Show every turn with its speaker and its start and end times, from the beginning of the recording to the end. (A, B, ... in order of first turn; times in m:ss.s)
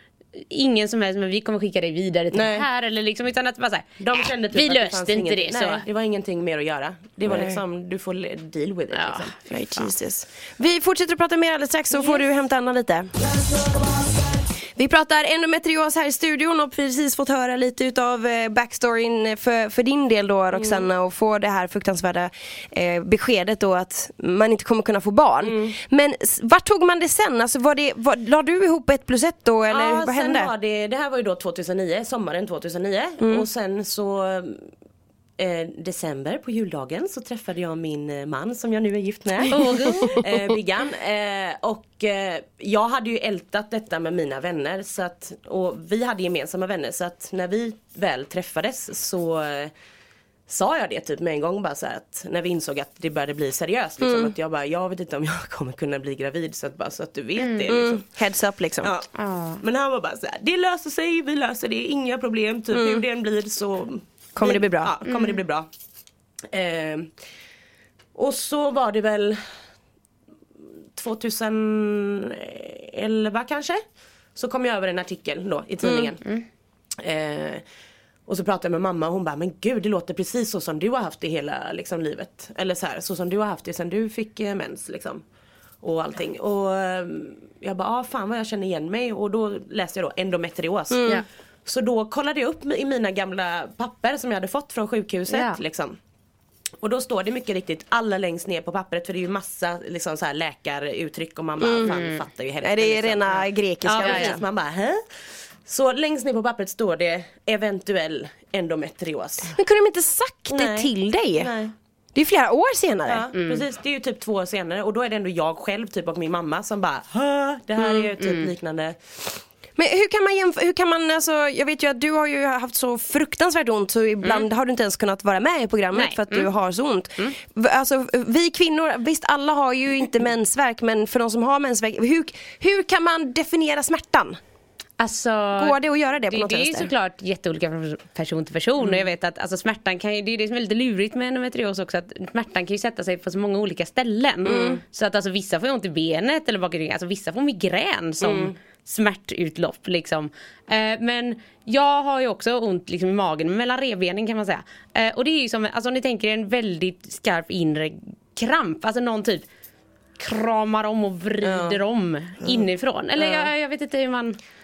0:00.4-0:05.8 A
0:02.3-0:02.7 B
0:04.0-0:09.4 C
0:07.3-0:07.6 B
0:08.9-0:09.9 A
0:09.5-0:13.1 B
0:14.8-0:30.5 B
0:20.5-0:20.8 C
0:25.4-0:25.8 C
0:29.7-0:34.7 C
0:35.4-0:49.7 C
0:39.5-0:40.2 A
0:50.5-0:58.0 C
0:54.0-0:54.3 B
0:57.4-0:57.7 A
0:57.7-0:58.9 B
0:58.8-1:05.7 C
0:59.1-0:59.6 A
1:02.7-1:03.0 B
1:04.3-1:04.9 B
1:05.0-1:05.4 A
1:06.5-1:07.1 C
1:08.1-1:09.4 C
1:11.0-1:13.8 C
1:14.3-1:16.2 C
1:17.0-1:17.6 C
1:18.3-1:25.2 C
1:25.8-1:31.1 C
1:30.9-1:31.2 B
1:31.6-1:36.0 C
1:35.3-1:35.6 A
1:36.8-1:45.0 C
1:41.6-1:42.0 B
1:41.8-1:42.1 A
1:42.6-1:44.4 B
1:43.9-1:44.4 A
1:45.6-1:49.5 C
1:49.5-1:51.5 B
1:50.5-1:51.7 C
1:52.1-1:53.3 B
1:53.1-1:59.4 C
1:53.4-1:53.6 A
1:57.8-1:58.5 A
1:59.8-2:14.4 B
2:04.2-2:04.5 A
2:05.9-2:06.5 A
2:15.0-2:15.8 A
2:15.6-2:16.9 B
2:16.3-2:39.5 A
2:24.5-2:24.8 B
2:24.5-2:24.7 C
2:28.2-2:28.5 C
2:40.2-2:44.4 A
2:41.4-2:41.8 C
2:43.2-2:43.5 C